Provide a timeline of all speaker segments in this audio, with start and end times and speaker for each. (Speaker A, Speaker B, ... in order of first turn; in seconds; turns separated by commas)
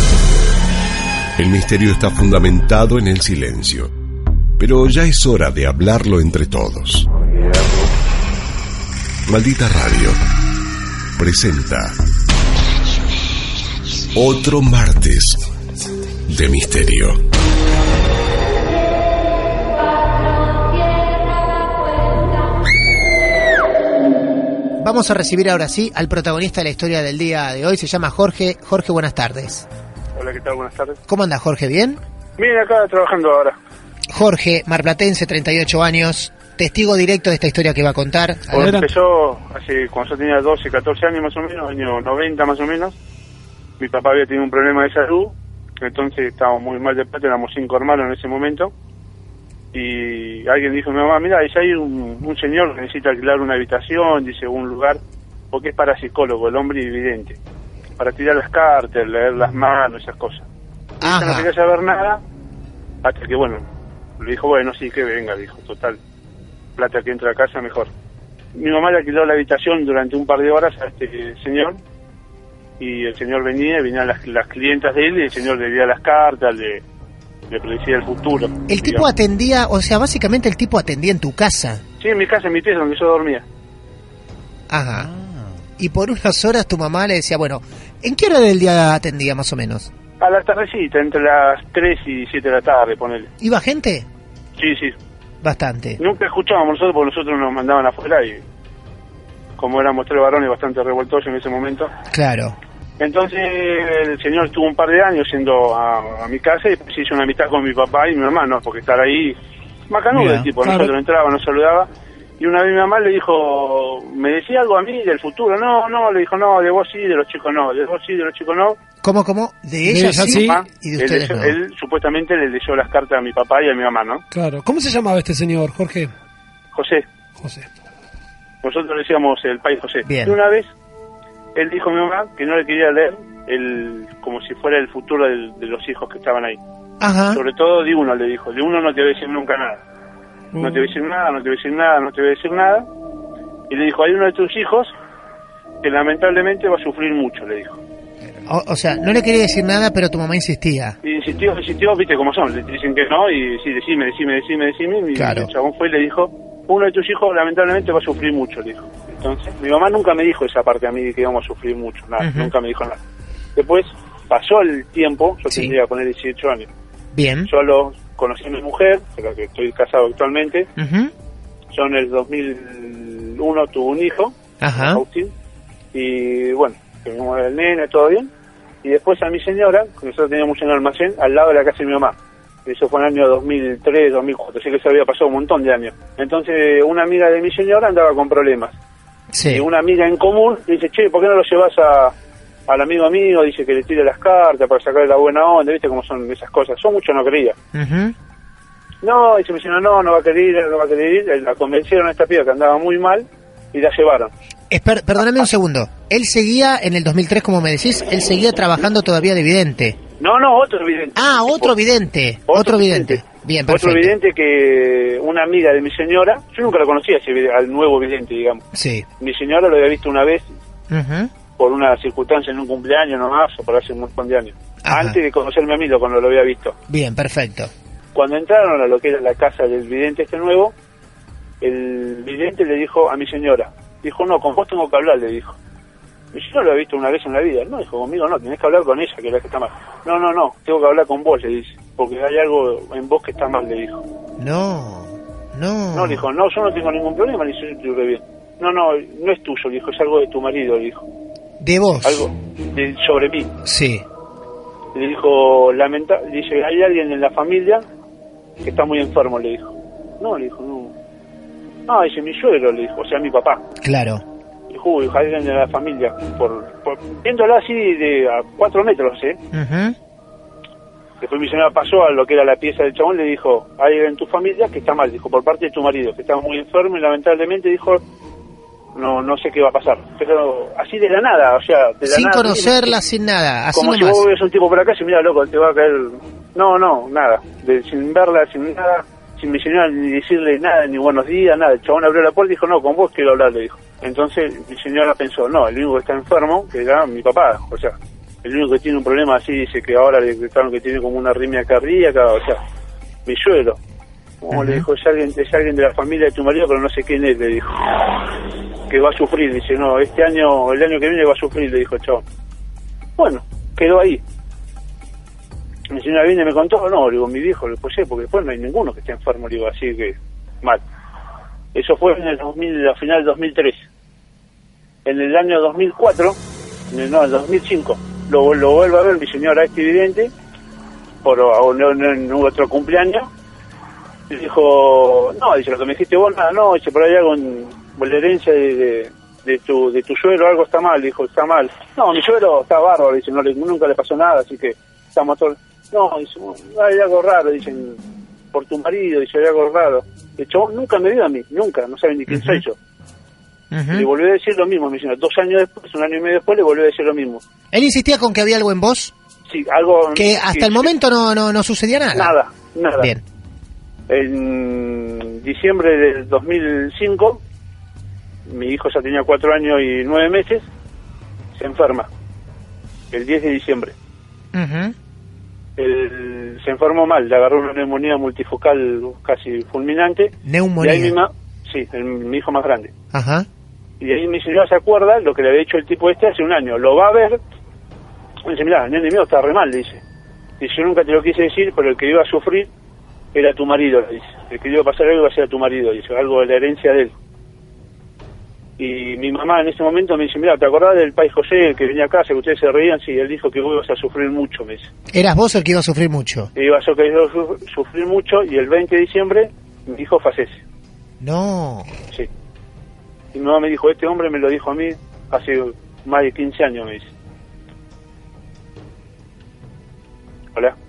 Speaker A: 1.4-3.9, Speaker A: 4.6-7.9, Speaker A: 9.3-10.2, Speaker A: 11.2-11.9, Speaker A: 14.1-15.4, Speaker A: 16.3-17.2, Speaker B: 24.8-29.7, Speaker C: 30.2-31.0, Speaker B: 31.1-32.0, Speaker C: 32.4-33.6, Speaker B: 34.1-38.7, Speaker C: 38.5-43.0, Speaker D: 38.5-38.9, Speaker C: 43.8-48.7, Speaker C: 49.7-55.0, Speaker C: 55.5-57.4, Speaker C: 58.0-60.5, Speaker C: 61.0-62.2, Speaker B: 61.0-61.5, Speaker C: 63.0-63.6, Speaker C: 64.2-66.0, Speaker C: 66.8-67.9, Speaker C: 68.5-71.8, Speaker C: 72.8-76.8, Speaker C: 77.5-79.0, Speaker B: 78.7-81.8, Speaker C: 82.0-83.4, Speaker B: 84.7-85.1, Speaker B: 85.8-89.9, Speaker C: 90.2-93.3, Speaker B: 93.4-94.1, Speaker C: 94.6-95.0, Speaker B: 95.4-96.0, Speaker C: 96.0-98.4, Speaker C: 99.6-101.9, Speaker B: 102.1-102.5, Speaker C: 103.0-109.4, Speaker C: 109.9-111.9, Speaker D: 110.5-110.9, Speaker C: 112.4-118.8, Speaker B: 119.0-121.5, Speaker D: 119.9-120.6, Speaker C: 120.0-124.2, Speaker D: 124.3-126.1, Speaker C: 126.7-127.0, Speaker D: 127.4-127.7, Speaker C: 128.6-130.7, Speaker B: 130.1-130.4, Speaker C: 131.6-136.6, Speaker B: 137.0-137.4, Speaker C: 137.3-139.8, Speaker C: 140.6-142.9, Speaker C: 143.7-144.9, Speaker C: 145.8-147.8, Speaker B: 148.4-151.0, Speaker C: 151.0-163.0, Speaker B: 155.1-155.5, Speaker B: 162.2-162.5, Speaker C: 163.6-166.7, Speaker B: 167.1-167.5, Speaker C: 167.5-170.7, Speaker B: 170.8-171.1, Speaker C: 171.7-175.3, Speaker B: 174.6-175.0, Speaker C: 175.9-178.3, Speaker C: 178.8-188.7, Speaker B: 189.3-189.6, Speaker C: 189.5-192.1, Speaker C: 192.7-197.6, Speaker B: 197.7-198.1, Speaker C: 199.0-204.3, Speaker B: 204.7-210.0, Speaker C: 205.2-205.5, Speaker C: 210.2-211.7, Speaker B: 211.2-214.1, Speaker C: 212.5-218.6, Speaker B: 218.7-219.1, Speaker C: 219.2-220.4, Speaker B: 220.9-221.3, Speaker C: 221.6-226.8, Speaker B: 224.8-225.2, Speaker B: 226.9-227.7, Speaker C: 228.2-230.7, Speaker C: 231.6-235.6, Speaker C: 236.3-244.0, Speaker B: 244.4-246.2, Speaker C: 245.9-251.1, Speaker B: 251.6-252.2, Speaker C: 252.0-253.5, Speaker B: 253.6-254.1, Speaker C: 254.9-257.8, Speaker C: 258.6-260.9, Speaker C: 261.9-263.6, Speaker B: 263.8-264.2, Speaker C: 264.7-269.4, Speaker B: 269.5-270.0, Speaker C: 271.2-278.0, Speaker C: 278.9-283.0, Speaker B: 282.1-284.2, Speaker C: 283.7-302.6, Speaker C: 303.2-303.8, Speaker C: 304.4-308.3, Speaker B: 304.5-304.9, Speaker C: 308.9-312.2, Speaker C: 313.2-314.2, Speaker C: 315.9-320.8, Speaker C: 321.7-323.8, Speaker C: 325.1-326.4, Speaker C: 326.9-330.3, Speaker C: 331.2-333.3, Speaker C: 334.3-348.0, Speaker C: 348.5-352.8, Speaker B: 352.3-352.6, Speaker B: 353.7-354.1, Speaker C: 353.9-357.4, Speaker B: 357.7-359.1, Speaker C: 359.5-360.9, Speaker B: 360.1-362.3, Speaker C: 362.1-363.1, Speaker C: 364.1-367.4, Speaker C: 368.5-370.6, Speaker C: 371.6-372.1, Speaker C: 373.1-373.9, Speaker B: 374.5-374.9, Speaker C: 375.8-382.9, Speaker B: 380.4-381.1, Speaker B: 383.1-383.5, Speaker C: 384.0-387.4, Speaker C: 388.4-390.0, Speaker C: 390.6-392.7, Speaker C: 393.3-397.1, Speaker C: 398.8-404.9, Speaker B: 405.1-406.5, Speaker C: 406.6-410.6, Speaker B: 411.2-411.9, Speaker C: 413.3-417.1